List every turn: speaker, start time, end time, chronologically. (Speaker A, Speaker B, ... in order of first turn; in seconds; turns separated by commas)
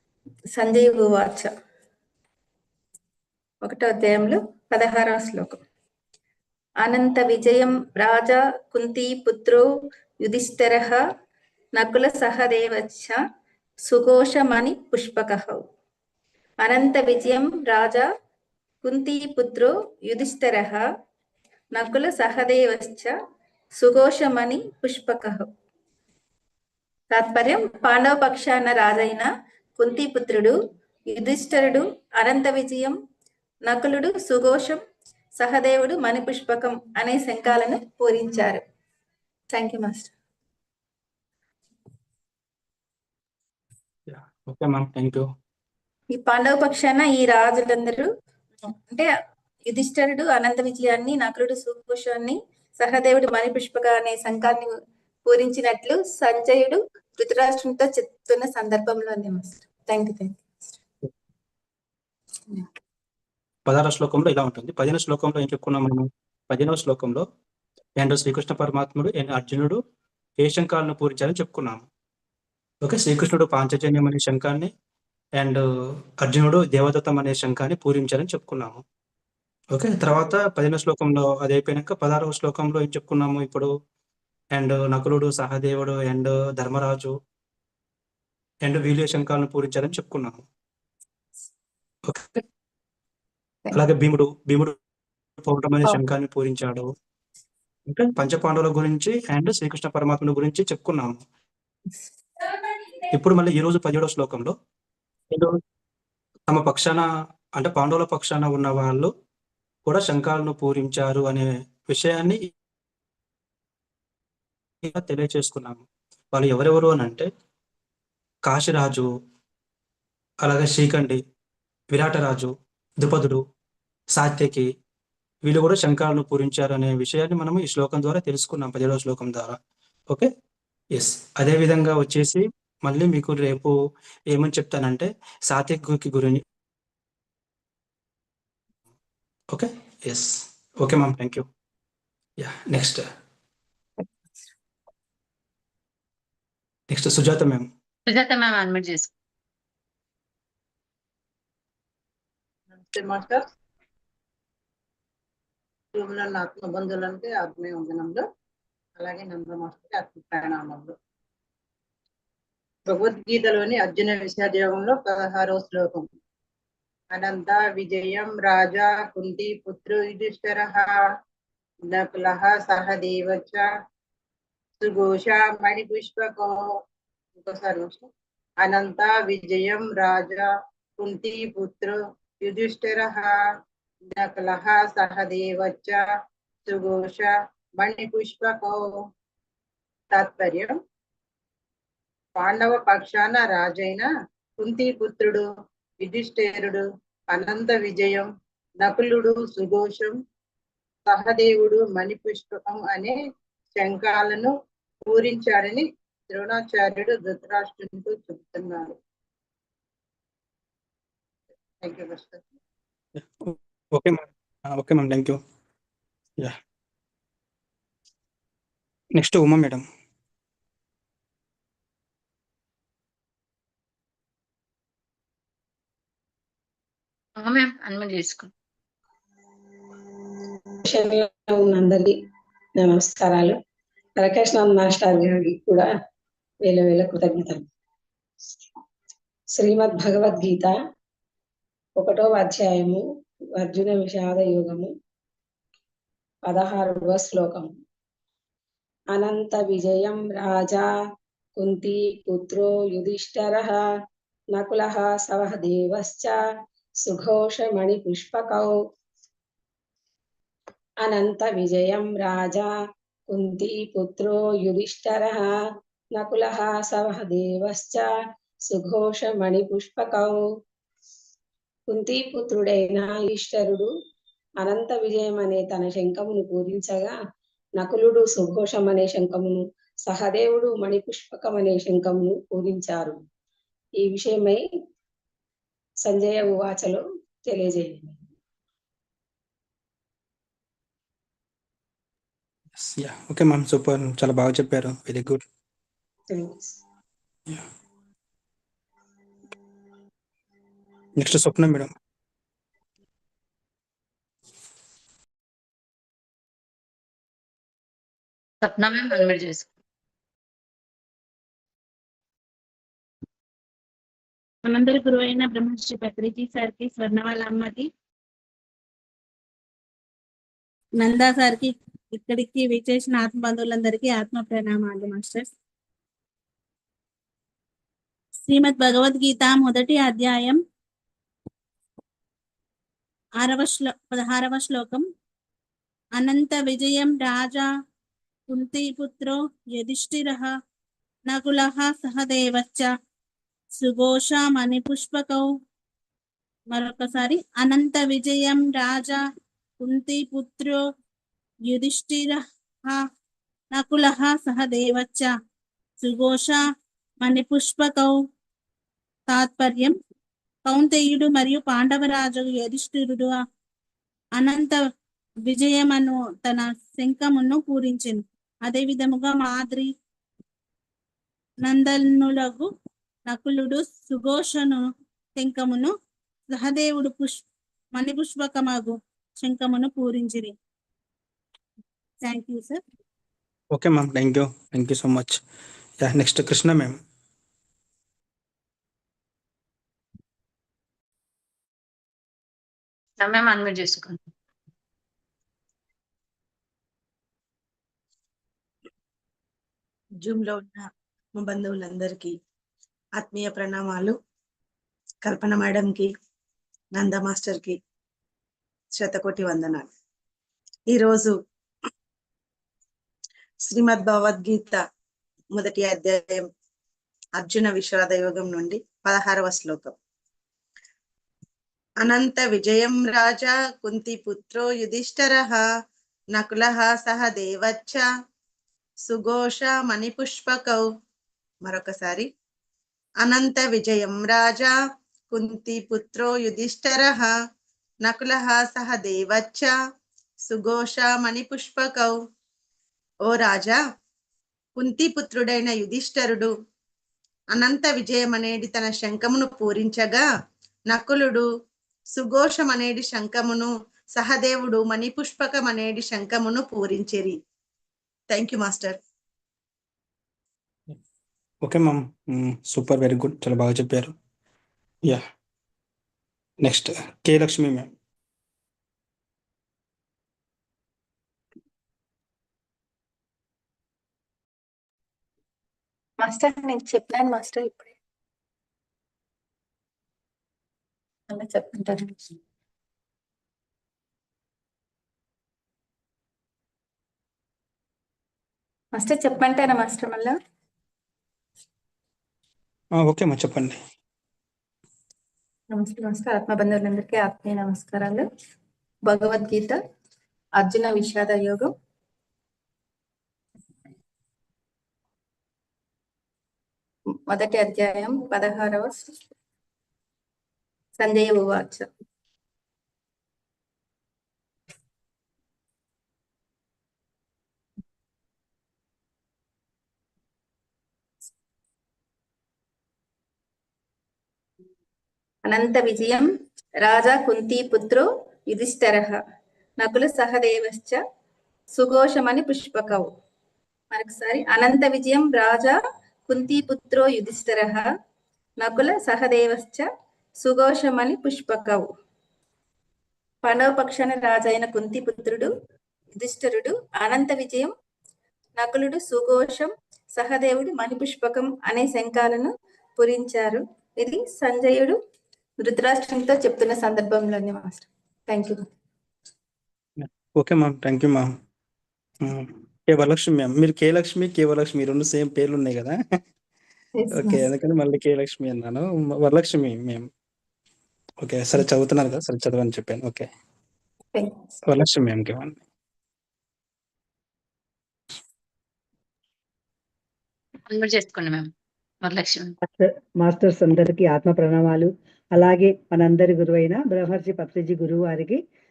Speaker A: 0.6-1.5, Speaker A: 3.6-5.6, Speaker A: 6.8-9.7, Speaker A: 10.2-11.0, Speaker A: 11.8-13.2, Speaker A: 13.8-15.6, Speaker A: 16.6-18.1, Speaker A: 18.8-20.9, Speaker A: 21.7-23.1, Speaker A: 23.8-25.5, Speaker A: 27.1-30.6, Speaker A: 31.1-33.0, Speaker A: 33.7-34.8, Speaker A: 35.4-38.6, Speaker A: 39.5-40.1, Speaker B: 44.1-45.3, Speaker A: 46.1-48.1, Speaker A: 48.6-49.1, Speaker A: 49.7-54.7, Speaker A: 55.3-60.4, Speaker B: 63.7-67.3, Speaker B: 68.0-69.8, Speaker B: 70.4-71.9, Speaker B: 72.8-74.7, Speaker B: 76.2-78.8, Speaker B: 79.7-83.7, Speaker B: 84.5-87.2, Speaker B: 88.7-90.4, Speaker B: 92.1-92.4, Speaker B: 93.7-94.8, Speaker B: 95.4-96.9, Speaker B: 97.9-101.2, Speaker B: 103.1-104.6, Speaker B: 105.3-105.6, Speaker B: 106.5-107.0, Speaker B: 107.6-109.1, Speaker B: 109.9-112.5, Speaker B: 114.8-117.3, Speaker B: 118.5-119.1, Speaker B: 120.4-121.2, Speaker B: 121.9-123.4, Speaker B: 124.2-124.7, Speaker B: 125.5-129.6, Speaker B: 130.9-133.7, Speaker B: 134.3-136.4, Speaker B: 139.5-141.5, Speaker B: 142.4-143.1, Speaker B: 146.9-147.7, Speaker C: 148.1-149.1, Speaker D: 152.8-153.4, Speaker D: 155.9-158.2, Speaker D: 159.0-160.9, Speaker D: 162.9-166.1, Speaker D: 167.1-171.0, Speaker D: 171.9-173.7, Speaker D: 174.8-176.7, Speaker D: 177.4-178.1, Speaker D: 178.6-183.3, Speaker D: 184.2-186.0, Speaker D: 186.7-188.8, Speaker D: 190.1-190.8, Speaker D: 192.4-194.1, Speaker D: 194.6-195.5, Speaker D: 196.0-198.3, Speaker D: 198.8-200.2, Speaker D: 201.1-203.2, Speaker D: 203.8-204.5, Speaker D: 205.1-208.9, Speaker D: 211.8-212.4, Speaker B: 213.4-215.4, Speaker B: 219.2-219.8, Speaker C: 227.4-228.5, Speaker E: 230.9-232.1, Speaker E: 232.8-233.6, Speaker E: 234.2-235.9, Speaker E: 236.7-237.6, Speaker E: 239.6-240.7, Speaker E: 242.0-243.0, Speaker E: 243.6-244.9, Speaker E: 246.5-247.7, Speaker E: 249.1-250.9, Speaker E: 251.6-253.8, Speaker E: 254.5-256.4, Speaker E: 257.0-258.8, Speaker E: 261.0-262.7, Speaker E: 263.3-265.5, Speaker E: 266.2-268.1, Speaker E: 268.7-270.4, Speaker E: 271.9-273.9, Speaker E: 274.6-277.1, Speaker E: 277.8-283.2, Speaker E: 284.0-284.6, Speaker E: 286.0-288.1, Speaker B: 292.8-295.4, Speaker E: 296.3-296.8, Speaker B: 301.2-301.9, Speaker C: 308.6-309.7, Speaker F: 314.6-317.9, Speaker F: 321.0-325.5, Speaker F: 328.5-330.6, Speaker F: 333.4-335.1, Speaker F: 336.2-337.7, Speaker F: 338.5-340.6, Speaker F: 341.3-342.9, Speaker F: 343.8-345.6, Speaker F: 346.7-349.3, Speaker F: 349.8-350.9, Speaker F: 351.7-353.1, Speaker F: 353.7-355.4, Speaker F: 356.0-356.7, Speaker F: 357.2-358.2, Speaker F: 359.3-360.0, Speaker F: 360.7-363.4, Speaker F: 364.4-364.8, Speaker F: 365.5-369.9, Speaker F: 371.6-372.7, Speaker F: 373.3-375.9, Speaker F: 376.5-377.4, Speaker F: 378.0-380.6, Speaker F: 382.2-382.8, Speaker B: 383.7-385.4, Speaker B: 386.0-387.0, Speaker C: 393.2-394.2, Speaker G: 400.2-400.9, Speaker G: 401.4-402.3, Speaker G: 403.2-404.2, Speaker G: 405.2-406.1, Speaker G: 407.0-407.8, Speaker G: 409.0-409.9, Speaker G: 410.9-411.4, Speaker G: 413.7-414.8, Speaker G: 415.6-416.4, Speaker G: 417.4-419.9, Speaker G: 422.0-425.6, Speaker G: 426.4-428.1, Speaker G: 429.1-430.9, Speaker G: 431.6-432.3, Speaker G: 433.2-434.8, Speaker G: 435.3-437.4, Speaker G: 438.1-439.7, Speaker G: 440.5-442.2, Speaker G: 443.3-443.8, Speaker G: 444.8-446.5, Speaker G: 447.5-450.3, Speaker G: 450.9-451.5, Speaker G: 452.1-457.4, Speaker G: 458.3-459.0, Speaker B: 461.6-464.1, Speaker B: 466.6-467.9, Speaker A: 476.2-477.9, Speaker A: 481.3-482.4, Speaker A: 488.9-490.4, Speaker B: 493.0-493.8, Speaker A: 495.7-498.3, Speaker A: 499.1-499.8, Speaker A: 500.6-501.7, Speaker A: 507.3-509.1, Speaker A: 511.0-511.9, Speaker A: 525.5-529.2, Speaker A: 529.8-531.0, Speaker A: 531.8-533.1, Speaker A: 533.9-537.9, Speaker A: 538.6-539.9, Speaker A: 540.4-541.9, Speaker A: 543.4-545.5, Speaker A: 546.2-547.7, Speaker A: 548.6-555.0, Speaker A: 555.6-558.7, Speaker B: 560.0-561.3, Speaker B: 562.2-566.2, Speaker A: 567.0-567.4, Speaker B: 567.1-570.1, Speaker B: 571.2-573.3, Speaker A: 574.1-574.5, Speaker B: 574.6-575.6, Speaker C: 580.7-581.5, Speaker C: 582.0-582.6, Speaker H: 582.6-588.4